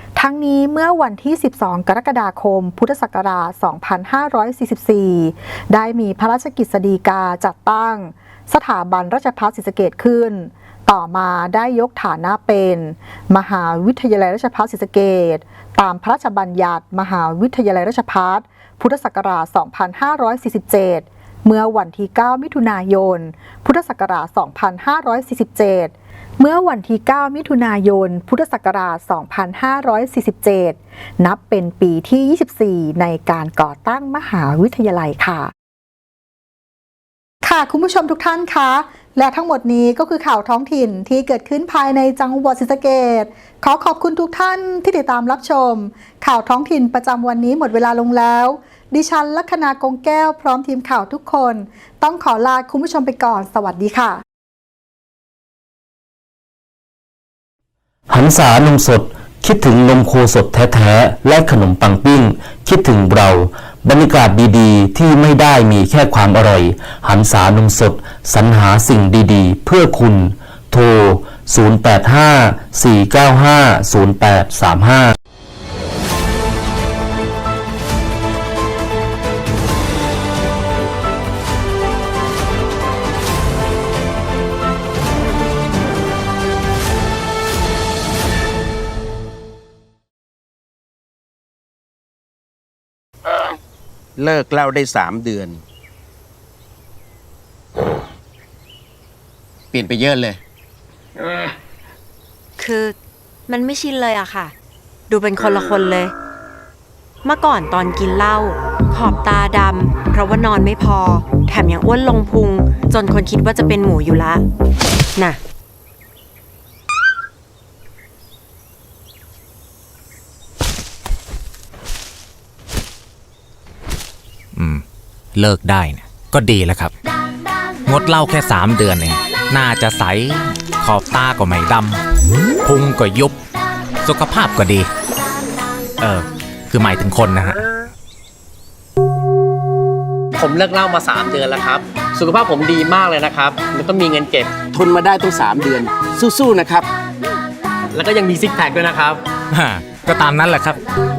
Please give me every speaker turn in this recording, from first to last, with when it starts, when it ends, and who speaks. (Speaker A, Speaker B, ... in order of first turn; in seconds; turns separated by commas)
Speaker A: 0.2-35.5, Speaker A: 37.4-54.2, Speaker B: 58.1-75.1, Speaker C: 94.2-95.6, Speaker C: 99.7-100.4, Speaker D: 102.6-103.0, Speaker D: 103.5-104.5, Speaker D: 105.1-106.1, Speaker D: 107.2-114.4, Speaker E: 124.5-124.8, Speaker E: 125.3-126.9, Speaker E: 127.9-132.0, Speaker E: 132.6-133.4, Speaker E: 134.0-134.9, Speaker E: 136.0-137.6, Speaker F: 140.5-141.8, Speaker F: 142.3-144.5, Speaker C: 144.7-146.9, Speaker F: 148.0-149.2, Speaker E: 149.5-150.8